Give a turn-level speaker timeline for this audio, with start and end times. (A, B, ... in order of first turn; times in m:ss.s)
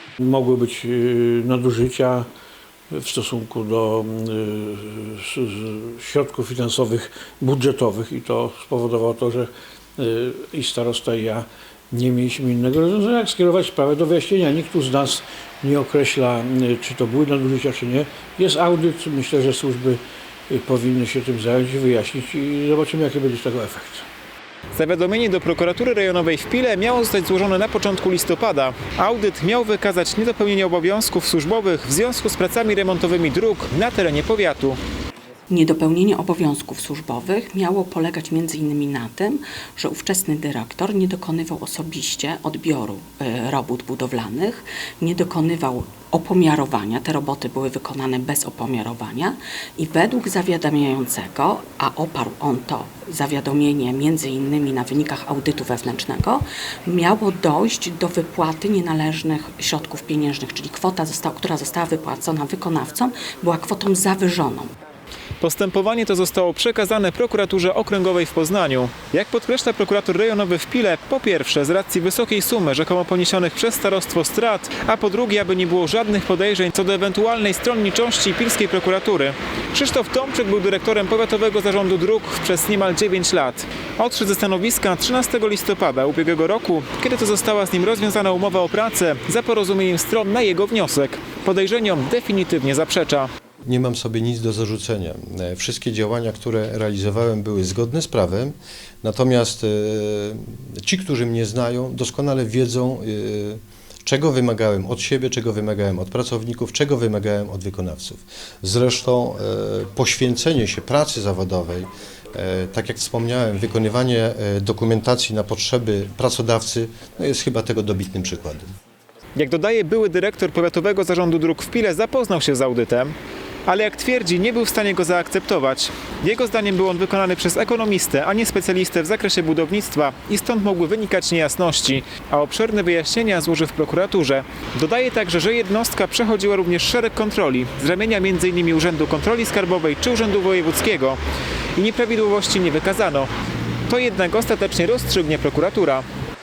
0:00.2-0:02.3 A
0:02.9-0:24.0 A
0:24.7-0:34.8 B
0:35.5-1:04.7 C
1:05.4-1:33.3 B
1:33.6-1:58.7 D
1:59.4-2:03.1 B
2:03.6-2:21.2 B
2:21.8-2:23.3 B
2:23.9-2:26.0 B